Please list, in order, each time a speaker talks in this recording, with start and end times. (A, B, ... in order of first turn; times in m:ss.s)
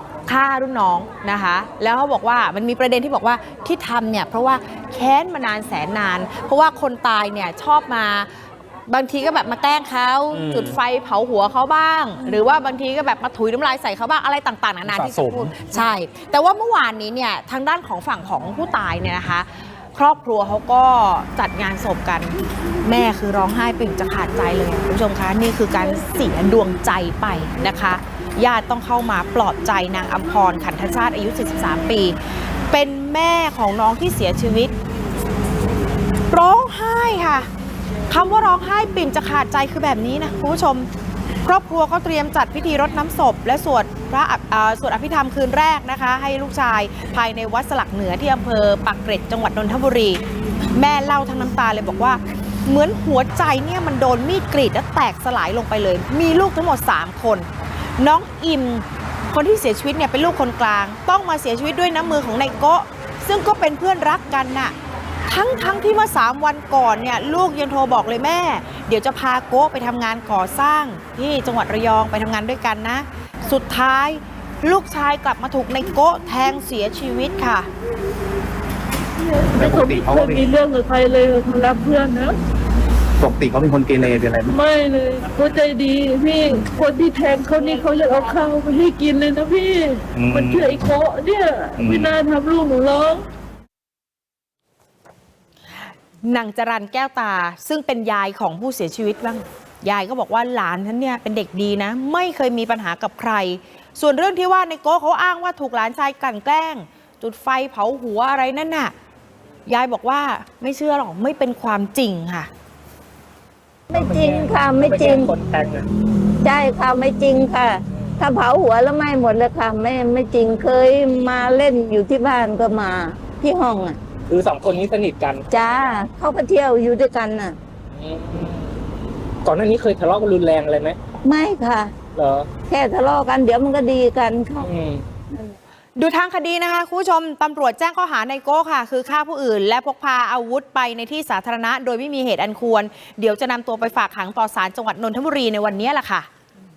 0:00.3-0:08.3 A
0:08.9-0:32.2 A
0:15.0-0:15.5 B
0:32.7-0:34.7 A
0:36.3-0:37.5 A
0:38.1-0:40.9 A
0:41.4-0:50.2 A
0:50.7-0:57.5 A
0:58.0-1:04.7 A
1:05.3-1:17.7 A
1:19.4-1:22.4 C
1:19.5-1:20.5 B
1:23.2-1:24.5 B
1:24.5-1:33.3 C
1:30.2-1:30.8 B
1:31.9-1:32.2 B
1:36.2-1:48.9 A
1:49.7-1:52.5 A
1:53.9-1:55.3 D
1:53.9-1:55.9 E
1:56.4-2:04.0 D
2:04.3-2:05.5 E
2:05.5-2:07.6 D
2:07.9-2:08.7 E
2:09.4-2:11.0 E
2:11.2-2:11.9 D
2:12.2-2:12.5 E
2:12.7-2:14.7 D
2:14.6-2:15.0 E
2:16.0-2:26.3 A